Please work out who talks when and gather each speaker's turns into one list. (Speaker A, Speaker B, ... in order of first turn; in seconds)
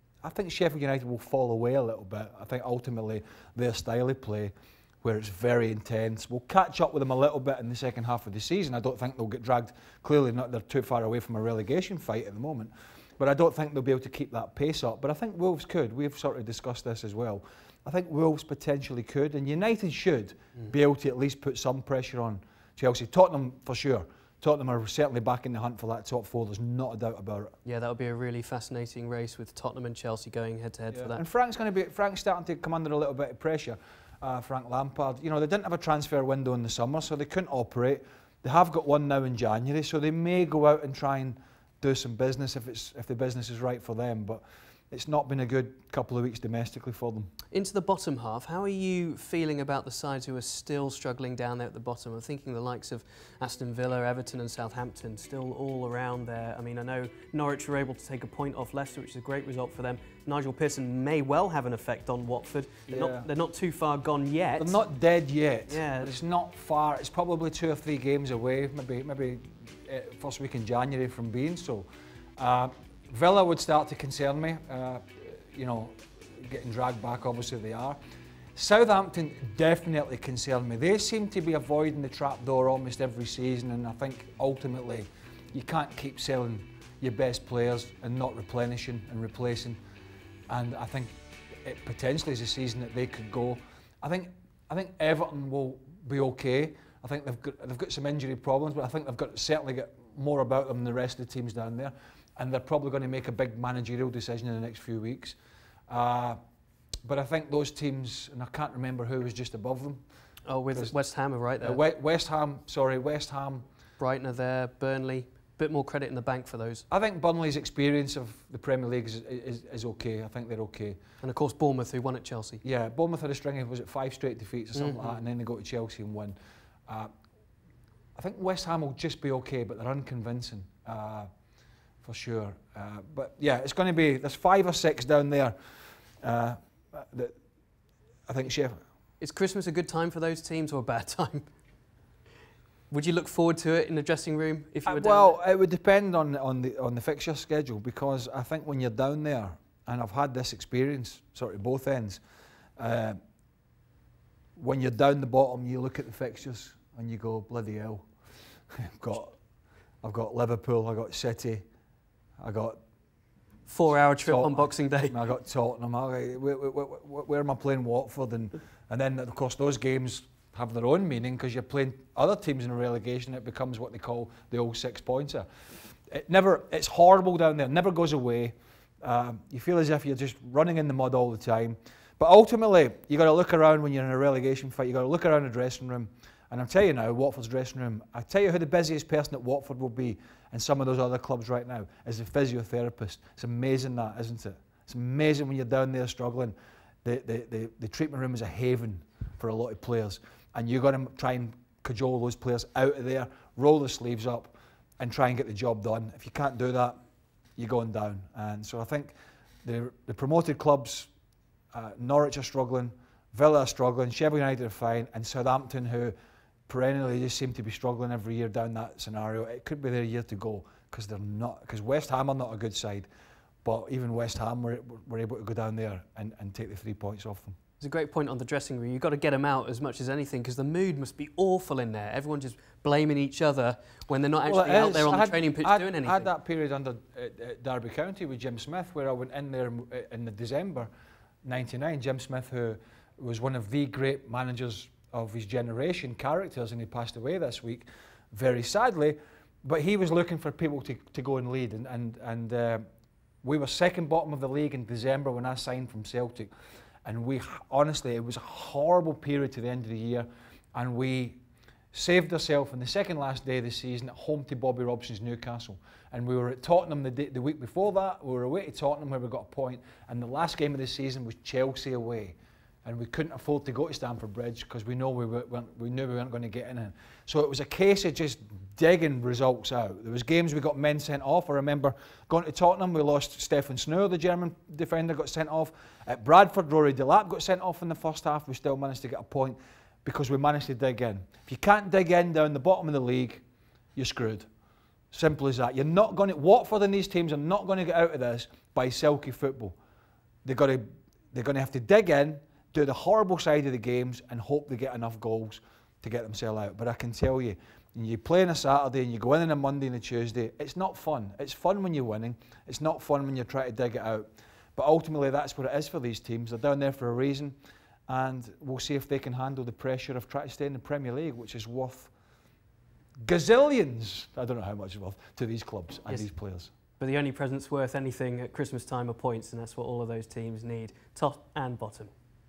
Speaker A: 0.2-27.6, 30.9-47.3, 62.9-63.3, 64.6-78.0, 78.5-89.8, 90.5-105.4, 105.9-106.4, 107.0-110.0, 111.6-113.6, 116.9-121.0, 122.6-126.3, 128.2-131.3, 132.0-135.5, 136.2-137.3, 138.3-138.8, 144.8-152.2, 152.8-153.2, 154.6-158.1, 158.7-159.3, 160.0-161.6, 162.4-162.8, 164.2-175.5, 176.1-207.0, 207.6-211.1, 211.7-216.1, 216.7-223.1, 223.6-227.6, 234.4-240.9, 241.4-252.8, 253.4-256.5, 257.0-261.4, 261.9-293.4, 293.9-294.4, 295.1-299.8, 300.4-317.6, 318.1-322.1, 323.2-326.7
Speaker B: 27.6-31.2, 47.5-64.8, 65.7-66.2, 110.5-111.8, 114.0-116.8, 121.2-122.6, 124.8-125.1, 139.2-141.4, 142.9-145.4, 163.7-165.2, 227.8-236.3, 327.0-332.1